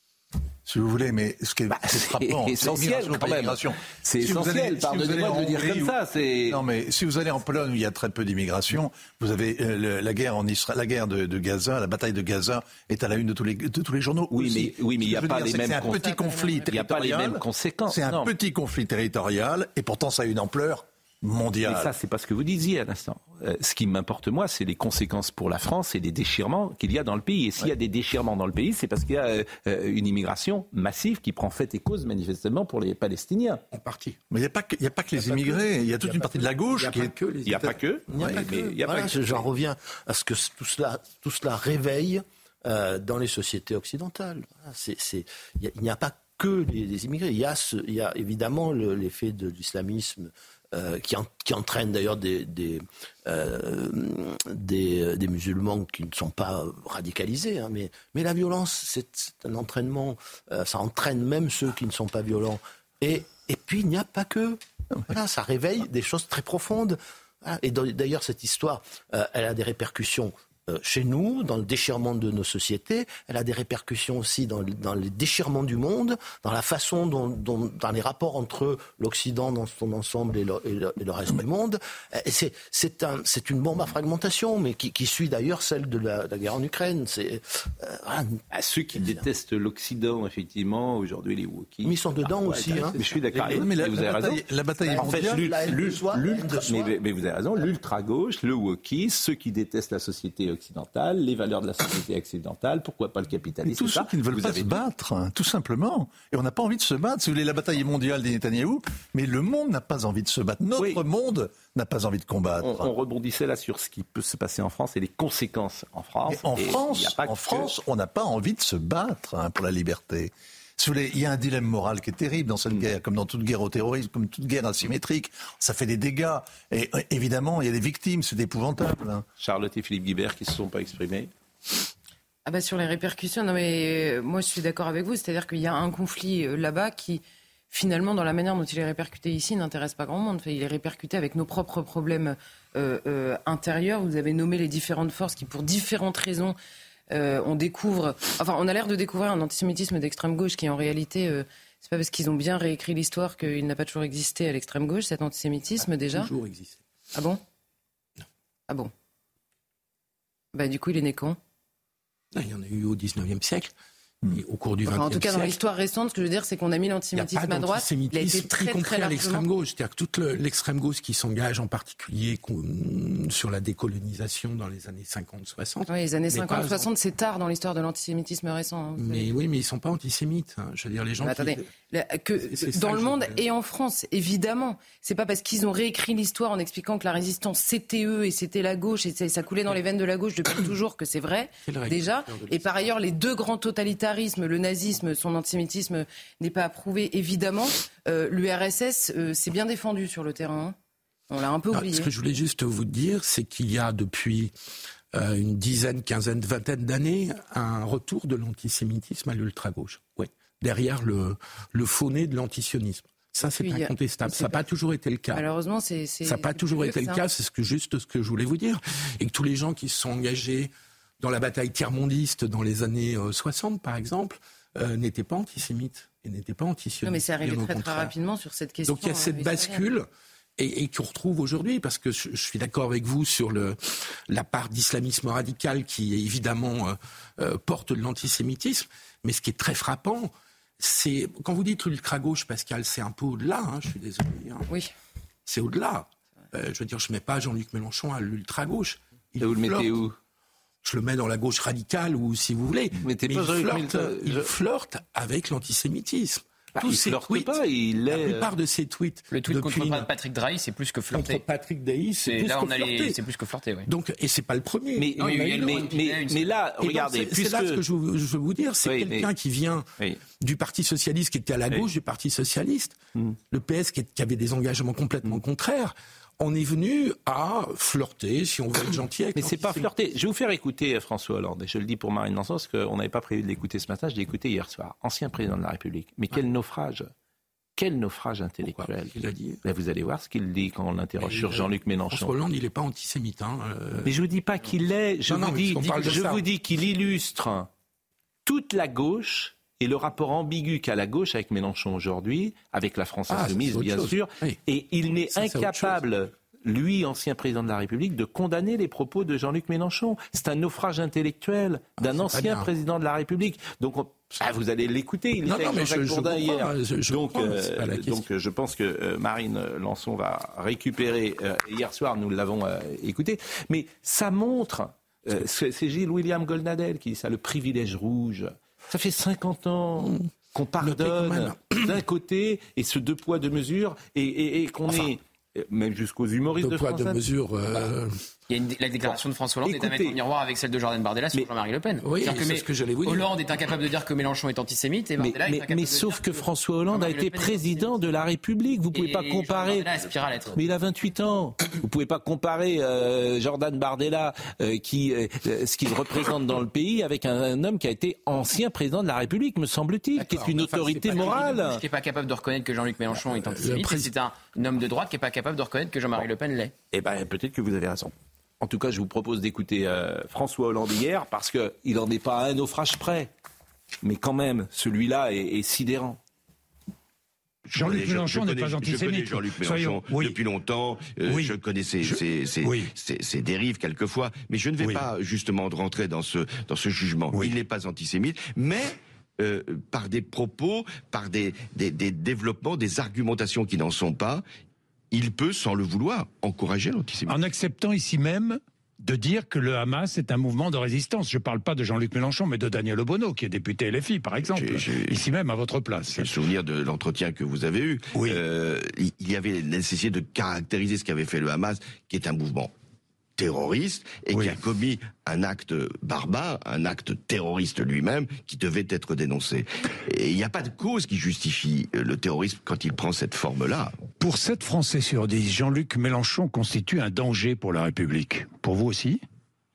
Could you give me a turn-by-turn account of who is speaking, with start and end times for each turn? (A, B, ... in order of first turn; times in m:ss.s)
0:00.6-0:21.9 A
0:01.7-0:06.6 B
0:14.3-0:16.1 B
0:15.9-0:16.8 C
0:16.6-0:18.3 B
0:21.6-0:33.6 B
0:33.7-0:34.2 D
0:34.3-0:37.1 A
0:35.2-0:37.8 D
0:37.5-0:39.5 B
0:38.1-1:28.4 E
1:28.5-1:34.4 B
1:28.9-1:29.2 E
1:31.8-1:33.0 E
1:33.0-1:35.5 A
1:34.8-1:36.9 E
1:35.0-1:44.8 B
1:43.7-1:52.9 A
1:52.6-1:57.7 B
1:56.3-2:09.2 A
2:09.4-2:11.3 B
2:12.5-2:26.6 C
2:27.1-2:36.3 C
2:36.1-2:36.8 D
2:37.1-2:37.4 C
2:40.5-2:41.4 C
2:42.3-2:43.7 D
2:44.2-2:45.6 D
2:44.8-2:49.5 C
2:47.1-2:56.9 D
2:55.9-2:59.3 C
2:59.0-3:01.6 D
3:01.2-3:20.8 C
3:02.4-3:03.4 D
3:11.7-3:12.7 D
3:21.3-3:22.1 C
3:21.7-3:24.5 D
3:25.1-3:35.4 D
3:33.4-3:34.6 C
3:35.3-3:37.2 C
3:36.2-3:48.1 D
3:47.0-3:49.9 C
3:48.9-3:50.1 D
3:50.6-4:04.7 D
4:05.5-4:10.0 D
4:09.4-4:10.2 B
4:10.8-4:20.1 D
4:13.0-4:14.5 B
4:16.8-4:18.5 B
4:19.3-4:21.4 F
4:21.1-4:23.2 D
4:22.2-4:23.9 F
4:23.9-4:25.8 D
4:25.0-4:27.8 B
4:25.2-4:26.6 F
4:26.8-4:29.9 D
4:28.8-4:29.3 B
4:30.4-4:33.0 D
4:33.5-4:39.9 D
4:39.4-4:47.1 B
4:47.8-4:52.3 B
4:48.6-4:49.6 D
4:51.2-4:54.2 D
4:54.0-4:57.7 B
4:55.3-4:56.5 D
4:58.5-5:37.2 B
5:03.3-5:04.6 D
5:05.3-5:06.0 D
5:12.0-5:12.7 D
5:15.4-5:18.2 D
5:30.8-5:32.0 D
5:36.6-5:38.2 D
5:38.5-5:48.1 F
5:39.0-5:40.2 B
5:42.0-5:43.3 D
5:45.2-5:49.9 B
5:48.9-5:50.6 F
5:50.5-6:01.8 B
6:00.2-6:01.6 D
6:01.1-6:06.7 F
6:03.2-6:04.1 D
6:06.9-6:13.3 B
6:14.0-6:16.2 B
6:17.6-6:34.4 G
6:17.8-6:20.4 H
6:21.3-6:22.9 H
6:35.1-6:37.4 G
6:37.3-6:46.3 H
6:44.4-6:45.2 G
6:46.1-6:52.7 G
6:48.1-6:48.4 A
6:53.4-7:04.1 G
7:04.2-7:09.2 H